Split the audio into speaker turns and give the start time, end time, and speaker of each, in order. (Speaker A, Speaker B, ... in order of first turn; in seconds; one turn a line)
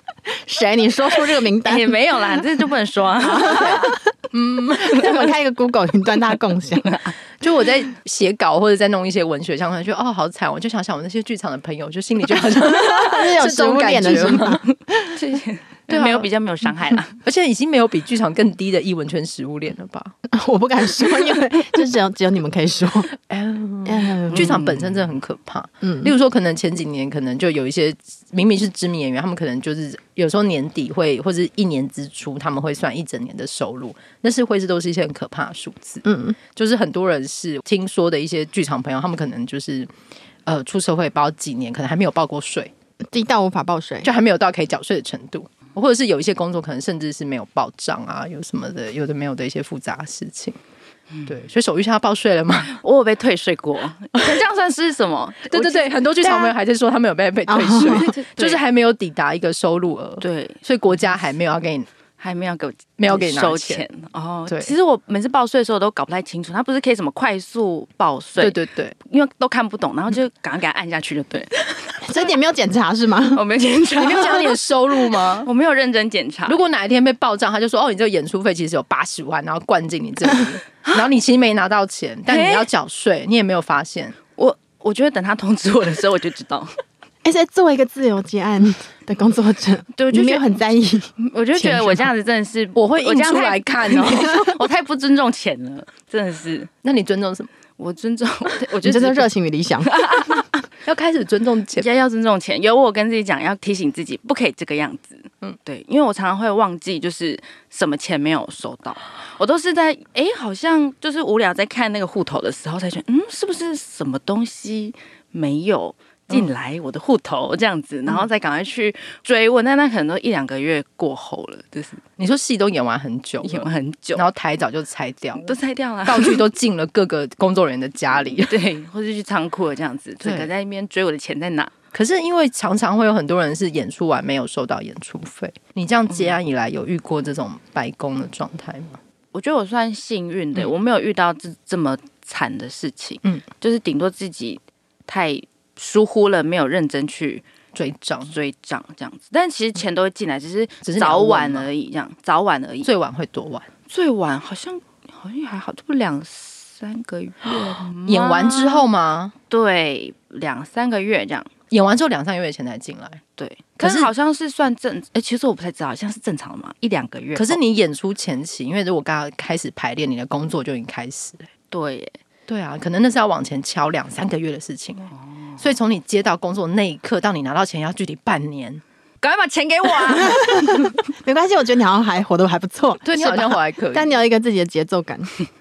Speaker A: 0.3-2.4
Speaker B: 1.6-4.0
Speaker A: 3.2-4.1
Speaker C: 3.5-3.8
Speaker C: 4.3-5.3
Speaker A: 4.8-6.9
Speaker B: 6.8-7.1
Speaker C: 7.4-14.6
Speaker A: 12.7-14.6
Speaker B: 15.1-17.2
Speaker C: 15.9-16.3
Speaker C: 17.2-20.1
Speaker A: 20.3-23.1
Speaker C: 23.3-39.9
Speaker A: 23.8-24.6
Speaker A: 25.8-26.1
Speaker A: 36.0-36.4
Speaker C: 40.5-42.7
Speaker A: 43.0-44.1
Speaker C: 44.0-50.6
Speaker C: 51.2-52.8
Speaker B: 52.7-56.4
Speaker C: 55.5-61.9
Speaker A: 57.5-58.1
Speaker B: 57.8-58.6
Speaker B: 60.2-60.6
Speaker B: 62.2-72.0
Speaker C: 63.0-63.8
Speaker C: 64.5-64.7
Speaker C: 68.4-68.9
Speaker A: 72.0-73.4
Speaker B: 73.3-76.6
Speaker C: 74.0-75.5
Speaker C: 76.5-84.2
Speaker B: 82.3-82.7
Speaker B: 84.3-86.8
Speaker A: 87.2-92.0
Speaker B: 89.9-90.5
Speaker B: 91.2-96.7
Speaker C: 92.8-94.6
Speaker C: 96.8-97.5
Speaker B: 97.8-99.2
Speaker A: 98.8-100.0
Speaker B: 99.8-100.5
Speaker C: 100.8-101.8
Speaker B: 101.8-122.0
Speaker C: 122.2-128.6
Speaker B: 123.4-124.2
Speaker B: 125.3-126.4
Speaker B: 128.3-131.7
Speaker C: 130.2-130.5
Speaker C: 131.9-139.0
Speaker B: 136.1-136.3
Speaker B: 139.3-147.4
Speaker C: 147.7-148.3
Speaker B: 148.3-152.9
Speaker C: 150.8-151.7
Speaker C: 152.8-153.7
Speaker B: 153.9-158.8
Speaker C: 158.0-159.3
Speaker B: 159.5-161.5
Speaker C: 161.7-163.2
Speaker B: 163.4-167.6
Speaker C: 163.8-164.1
Speaker C: 167.3-171.5
Speaker B: 171.7-172.2
Speaker C: 172.5-178.8
Speaker B: 179.2-180.9
Speaker A: 180.3-185.3
Speaker C: 183.0-184.1